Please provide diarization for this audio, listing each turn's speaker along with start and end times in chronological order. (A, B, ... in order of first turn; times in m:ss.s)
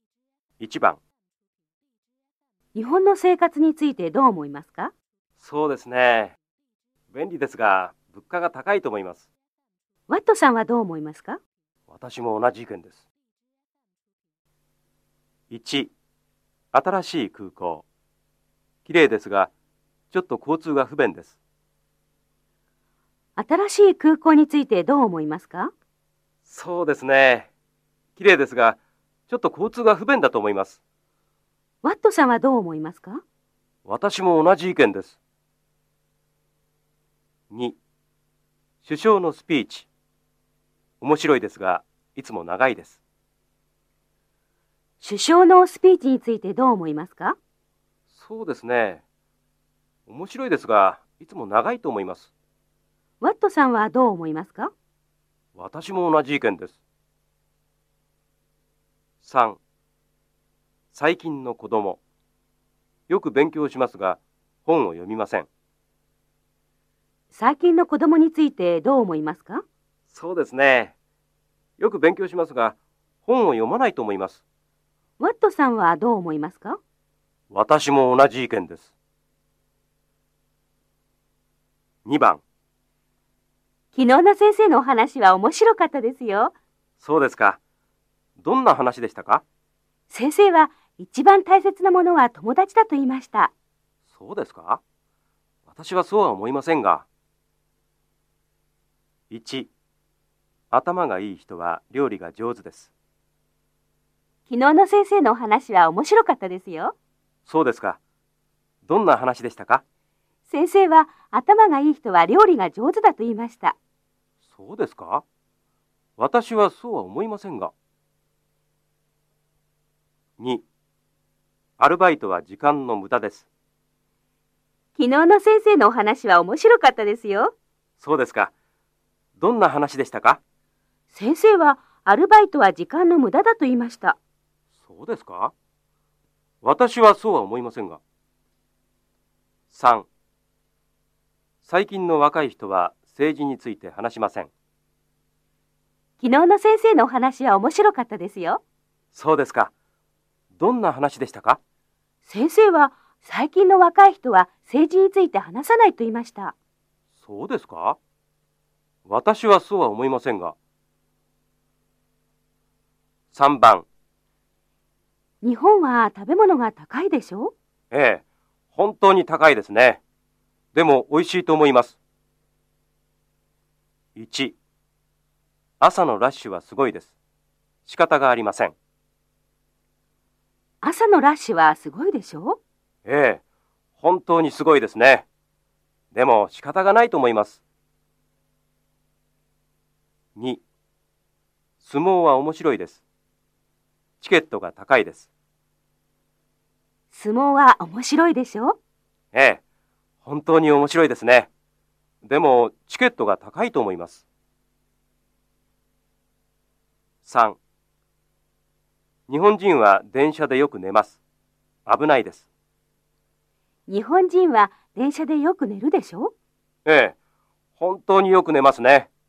0:00.6-0:01.0 A
0:02.7-0:04.9 B
0:05.4-0:06.4 A
0:07.1-0:09.3 A
0:10.1-0:11.4 B
0:11.9-0:13.0 A
0:15.5-0:15.9 A
0:16.7-0:17.8 A
0:18.8-0:19.5 A
0:20.1-0:21.4 A
0:23.4-0:25.7 B
0:26.4-0:27.5 A
0:28.2-0:30.8 A
0:31.8-0:33.2 B
0:33.8-0:35.2 A
0:37.5-0:37.8 A
0:38.8-0:39.9 A
0:41.0-0:43.0 A
0:45.0-0:47.4 B
0:48.1-0:49.0 A
0:50.1-0:52.3 A
0:53.2-0:54.7 B
0:55.5-0:56.8 A
0:59.2-0:59.6 A
1:00.9-1:02.0 A
1:03.1-1:05.5 A
1:07.3-1:09.6 B
1:10.1-1:10.9 A
1:11.8-1:14.4 A
1:15.2-1:16.8 B
1:17.5-1:18.9 A
1:22.0-1:22.4 A
1:23.9-1:26.5 B
1:27.0-1:27.6 A
1:28.4-1:29.4 A
1:30.1-1:33.5 B
1:34.1-1:34.8 A
1:35.6-1:37.1 A
1:39.3-1:39.7 A
1:40.7-1:42.9 A
1:44.5-1:46.9 B
1:47.4-1:48.0 A
1:48.8-1:49.8 A
1:50.5-1:53.8 B
1:54.5-1:55.2 A
1:56.2-1:57.7 A
2:00.4-2:00.6 A
2:01.8-2:03.5 A
2:05.0-2:07.5 B
2:08.0-2:08.5 A
2:09.4-2:10.4 A
2:11.1-2:14.2 B
2:14.8-2:15.5 A
2:16.6-2:18.0 A
2:19.7-2:20.1 A
2:21.6-2:24.5 A
2:26.2-2:28.6 B
2:29.1-2:29.7 A
2:30.5-2:31.6 A
2:32.2-2:36.5 B
2:37.2-2:38.0 A
2:39.0-2:40.6 A
2:43.3-2:43.9 A
2:45.4-2:47.5 B
2:47.9-2:50.0 A
2:50.7-2:52.0 A
2:54.1-2:54.6 A
2:55.8-2:57.1 A
2:57.8-2:58.7 A
3:00.8-3:02.6 B
3:03.0-3:03.4 A
3:04.0-3:05.3 A
3:06.1-3:07.6 A
3:10.3-3:10.6 A
3:11.8-3:13.0 A
3:14.2-3:15.3 A
3:17.1-3:18.8 B
3:19.3-3:19.6 A
3:20.2-3:21.5 A
3:22.2-3:24.2 A
3:27.2-3:27.6 A
3:29.3-3:31.2 A
3:31.8-3:32.5 A
3:33.9-3:36.3 B
3:36.8-3:37.2 A
3:37.8-3:39.1 A